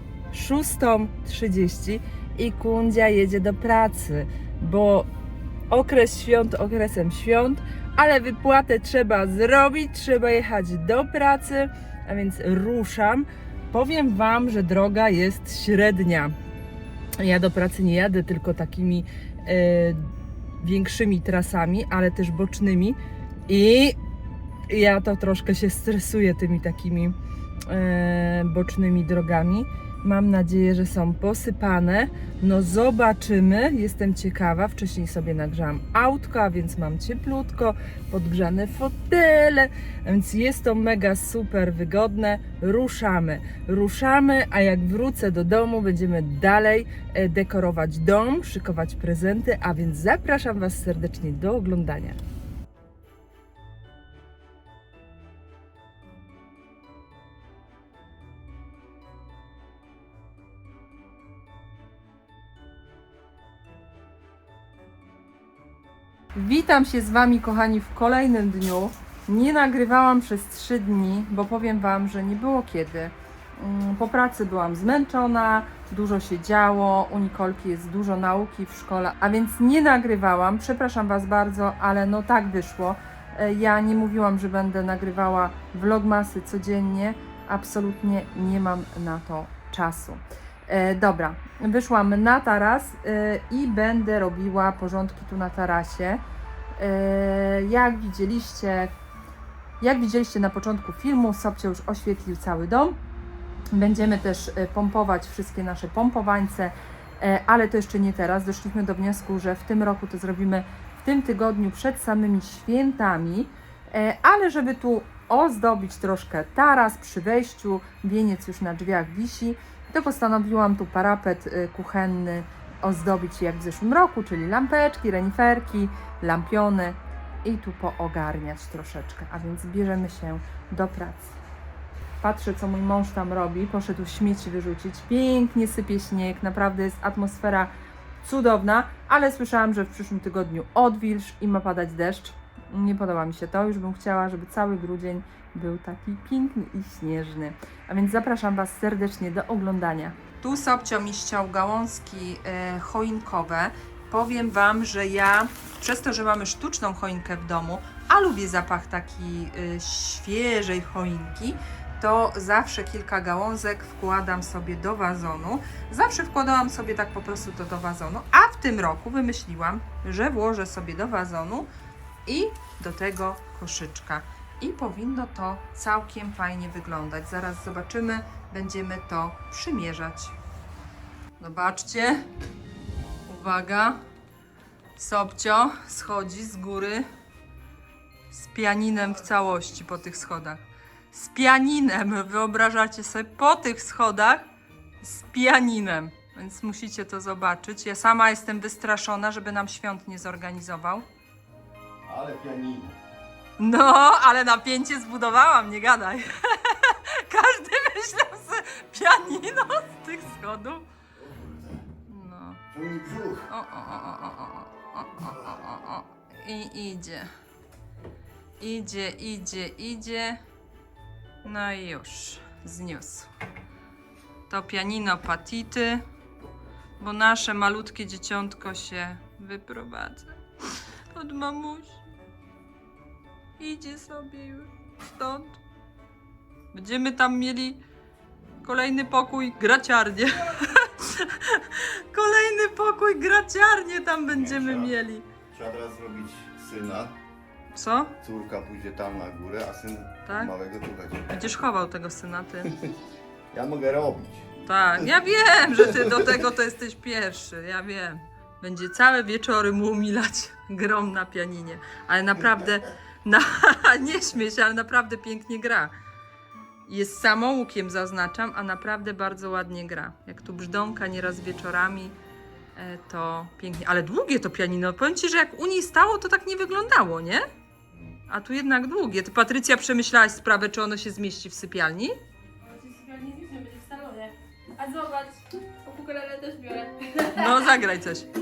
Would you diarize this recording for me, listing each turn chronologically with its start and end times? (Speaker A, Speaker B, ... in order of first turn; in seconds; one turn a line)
Speaker A: 0.3-5.1
Speaker A: 5.7-16.3
Speaker A: 17.2-24.0
Speaker A: 24.7-27.1
Speaker A: 27.7-52.2
Speaker A: 66.3-96.2
Speaker A: 96.8-98.9
Speaker A: 99.8-103.0
Speaker A: 103.7-131.4
Speaker A: 132.2-171.7
Speaker A: 172.2-180.3
Speaker A: 181.4-182.2
Speaker A: 183.3-184.0
Speaker A: 184.9-187.0
Speaker A: 188.3-194.4
Speaker A: 195.0-201.1
Speaker B: 202.0-203.0
Speaker A: 203.6-210.8
Speaker B: 211.2-211.8
Speaker A: 212.1-212.6
Speaker B: 212.7-213.5
Speaker A: 213.5-217.3
Speaker A: 218.6-220.4
Speaker A: 221.4-223.3
Speaker A: 224.5-226.0
Speaker A: 227.0-230.4
Speaker A: 231.1-232.0
Speaker A: 233.6-235.6
Speaker A: 236.7-237.8
Speaker A: 238.6-245.3
Speaker B: 244.3-244.9
Speaker B: 245.5-247.1
Speaker A: 247.7-248.1
Speaker B: 248.2-251.3
Speaker A: 250.2-250.5
Speaker A: 251.3-252.7
Speaker B: 253.5-254.5
Speaker A: 254.6-265.9
Speaker B: 255.7-256.2
Speaker A: 266.9-272.1
Speaker A: 272.8-277.4
Speaker A: 278.3-282.2
Speaker C: 282.6-287.4
Speaker A: 287.3-288.3